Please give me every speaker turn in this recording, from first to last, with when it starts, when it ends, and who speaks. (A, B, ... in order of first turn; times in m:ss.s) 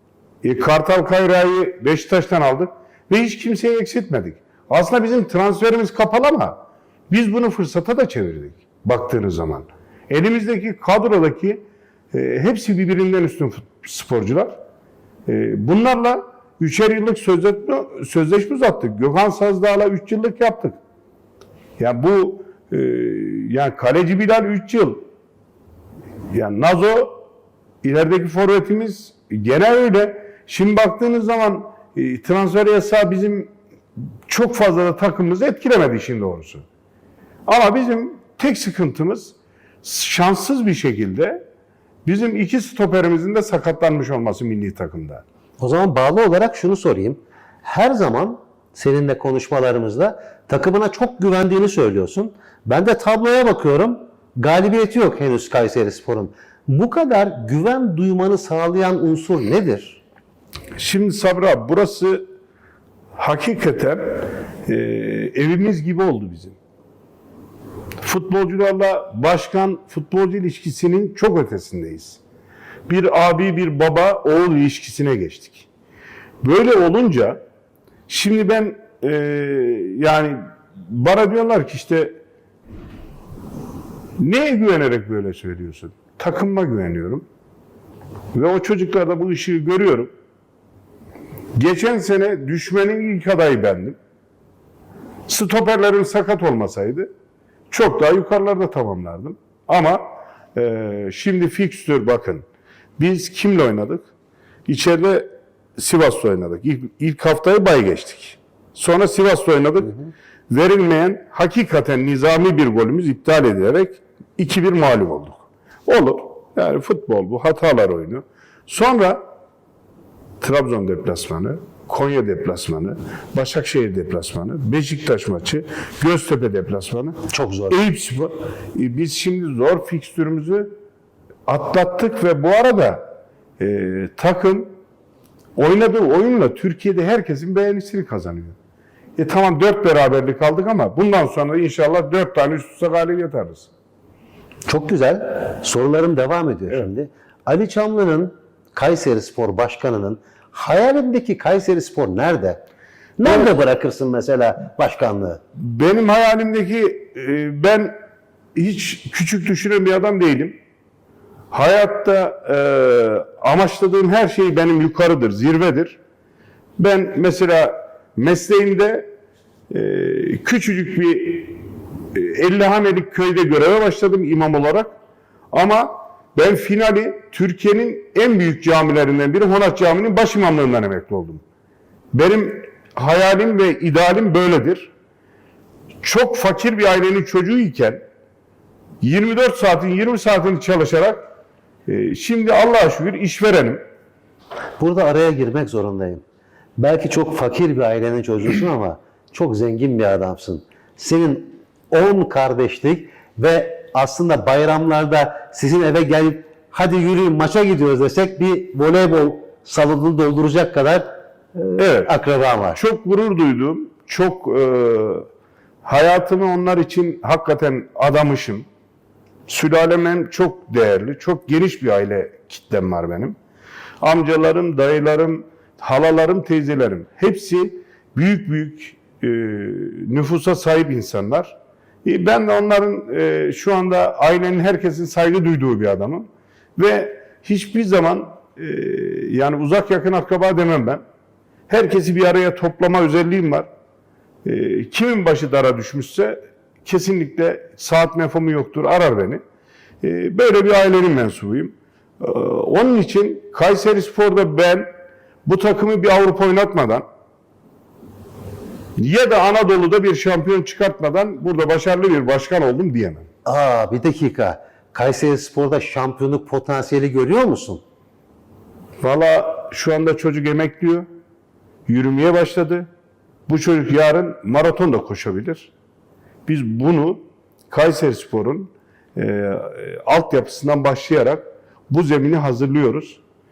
0:00.4-0:11.6 A
0:12.1-0:14.6 A
0:15.3-0:20.8 A
0:21.8-0:25.0 A
0:26.3-0:27.2 A
0:27.8-0:33.5 A
0:34.3-0:36.6 A
0:37.5-0:41.4 A
0:42.0-0:45.2 A
0:45.6-1:00.0 B
1:00.8-1:02.3 A
1:03.2-1:06.6 A
1:08.0-1:12.2 A
1:12.9-1:15.7 A
1:16.4-1:17.4 A
1:18.1-1:22.2 A
1:24.2-1:27.2 A
1:28.3-1:30.1 A
1:31.6-1:34.0 A
1:35.3-1:37.1 A
1:37.7-1:42.5 A
1:43.0-1:44.1 A
1:44.7-1:50.0 A
1:50.5-1:59.2 A
2:00.4-2:10.7 A
2:07.3-2:07.8 B
2:11.5-2:13.1 A
2:13.6-2:14.7 A
2:15.6-2:18.6 A
2:19.2-2:23.7 A
2:24.7-2:32.6 B
2:33.2-2:35.4 B
2:33.2-2:33.5 A
2:35.6-2:38.0 A
2:38.6-2:40.6 A
2:41.5-2:46.0 A
2:46.8-2:49.1 A
2:49.7-2:51.6 A
2:52.1-2:55.0 A
2:55.5-3:01.4 A
3:02.1-3:04.9 A
3:06.0-3:08.0 A
3:09.0-3:11.3 A
3:11.9-3:13.8 A
3:14.8-3:16.2 B
3:16.8-3:32.8 B
3:31.8-3:32.1 A
3:32.8-3:35.3 A
3:35.8-3:38.7 A
3:39.5-3:43.4 A
3:44.0-4:01.0 A
4:01.7-4:03.7 A
4:04.4-4:09.4 A
4:10.0-4:14.9 A
4:15.4-4:17.0 A
4:19.0-4:23.3 A
4:23.5-4:27.8 B
4:29.0-4:31.1 A
4:31.9-4:32.9 A
4:33.5-4:35.7 A
4:36.5-4:43.2 A